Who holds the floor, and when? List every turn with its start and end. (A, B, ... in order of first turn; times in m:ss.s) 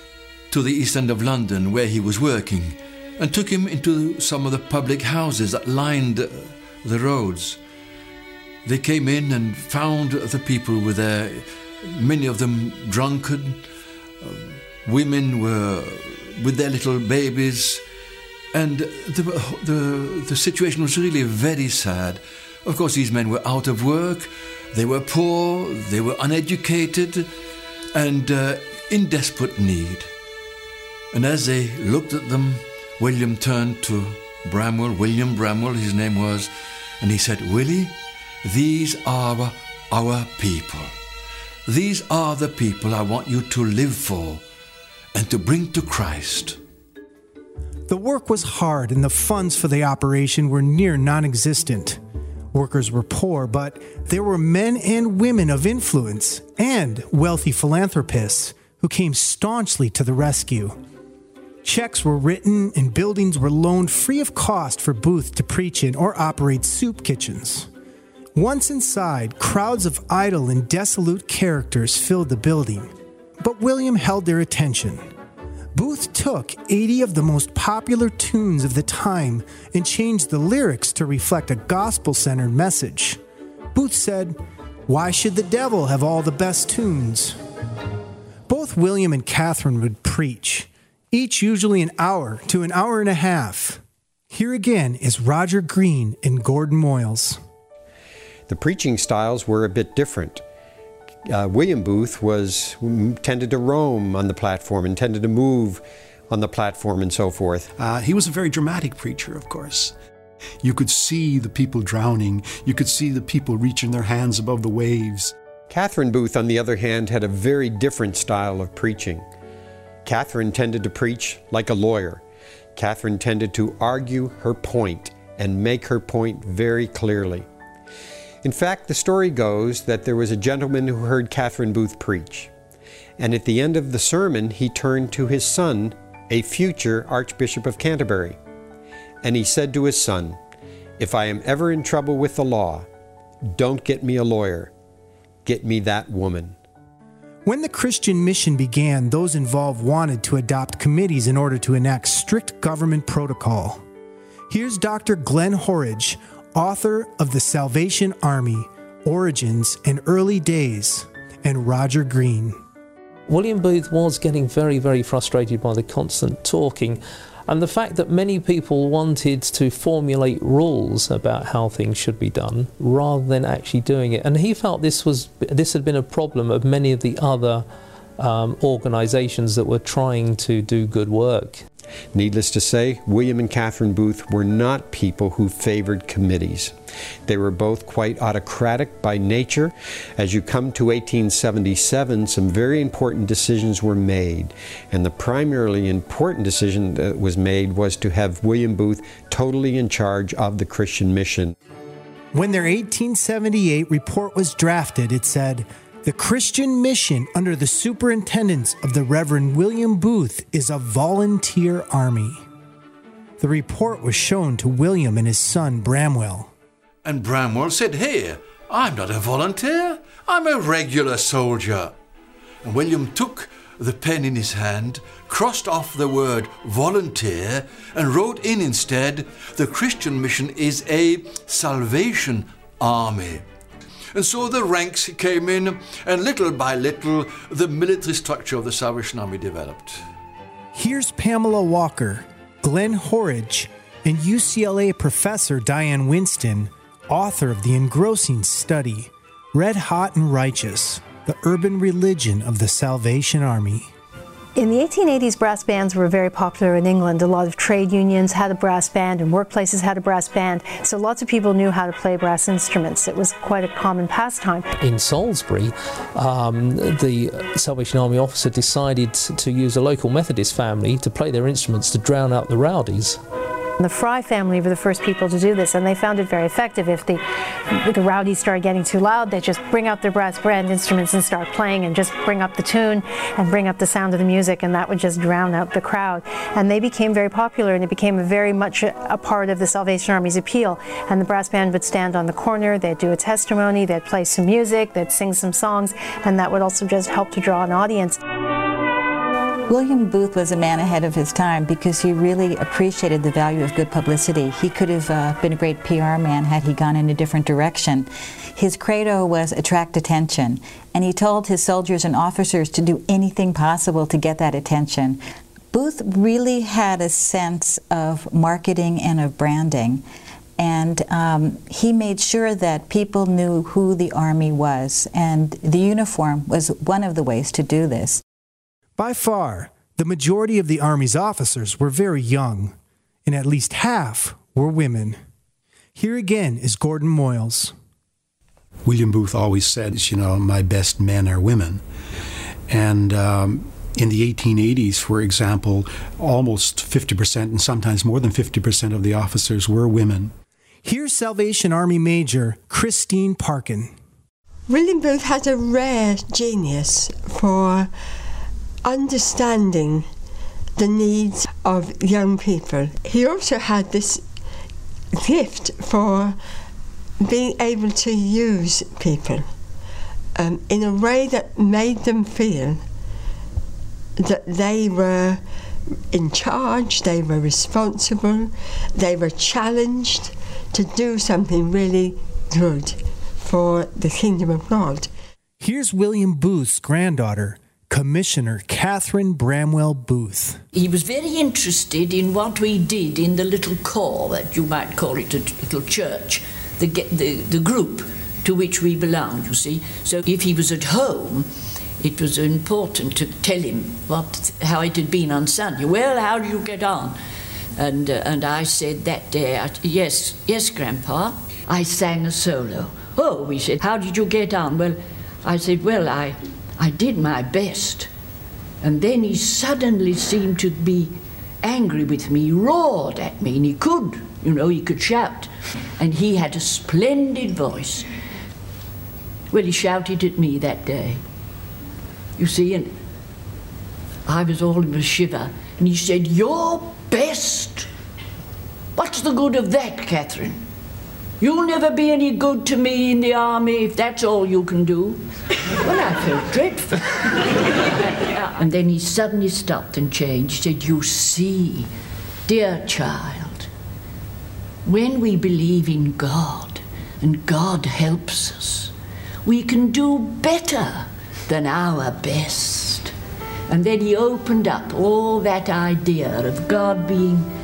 0:00.5-0:07.6 A
0:08.6-0:13.6 A
0:14.2-0:17.8 A
0:18.5-0:27.3 A
0:27.9-0:30.1 A
0:31.1-0:40.9 A
0:41.6-0:44.4 A
0:45.1-0:46.6 A
0:47.9-0:52.0 B
0:52.5-1:00.8 B
1:01.6-1:07.7 B
1:08.3-1:15.0 B
1:15.7-1:23.2 B
1:23.7-1:27.4 B
1:28.5-1:37.4 B
1:38.5-1:40.4 C
1:41.2-1:47.7 C
1:47.8-1:50.0 D
1:50.6-1:55.3 D
1:55.7-1:59.3 C
2:00.0-2:02.2 C
2:02.7-2:07.5 C
2:08.4-2:12.5 C
2:13.2-2:18.4 C
2:19.2-2:20.4 C
2:21.0-2:22.9 C
2:23.4-2:24.7 C
2:25.4-2:26.6 C
2:27.4-2:33.8 B
2:34.5-2:42.6 B
2:43.3-2:57.6 E
2:58.2-3:01.6 E
3:02.1-3:06.7 C
3:07.2-3:21.5 C
3:22.3-3:32.4 B
3:33.4-3:36.5 B
3:37.0-3:41.9 A
3:42.6-3:53.4 A
3:54.1-4:00.0 A
4:00.7-4:13.9 B
4:14.6-4:24.6 F
4:24.8-4:33.2 E
4:33.8-4:58.2 F
4:59.7-5:20.0 G
5:20.6-5:28.2 G
5:29.0-5:32.7 B
5:33.2-5:35.2 B
5:36.0-5:37.7 B
5:38.8-5:41.8 D
5:42.7-5:50.3 D
5:50.8-5:53.9 B
5:54.7-5:57.9 H
5:58.8-6:00.1 H
6:00.8-6:04.2 H
6:05.1-6:06.4 H
6:07.2-6:09.5 H
6:10.4-6:12.8 H
6:14.2-6:15.4 H
6:16.1-6:25.1 H
6:25.6-6:30.6 B
6:30.7-6:41.5 I
6:42.0-6:47.2 I
6:47.8-6:58.1 I
6:58.8-7:08.1 I
7:09.5-7:11.2 I
7:12.4-7:13.0 I
7:14.2-7:17.9 I
7:19.0-7:20.6 I
7:21.4-7:27.5 I
7:28.2-7:31.9 I
7:32.4-7:33.7 I
7:34.8-7:38.9 I
7:39.4-7:43.1 I
7:43.7-7:47.5 I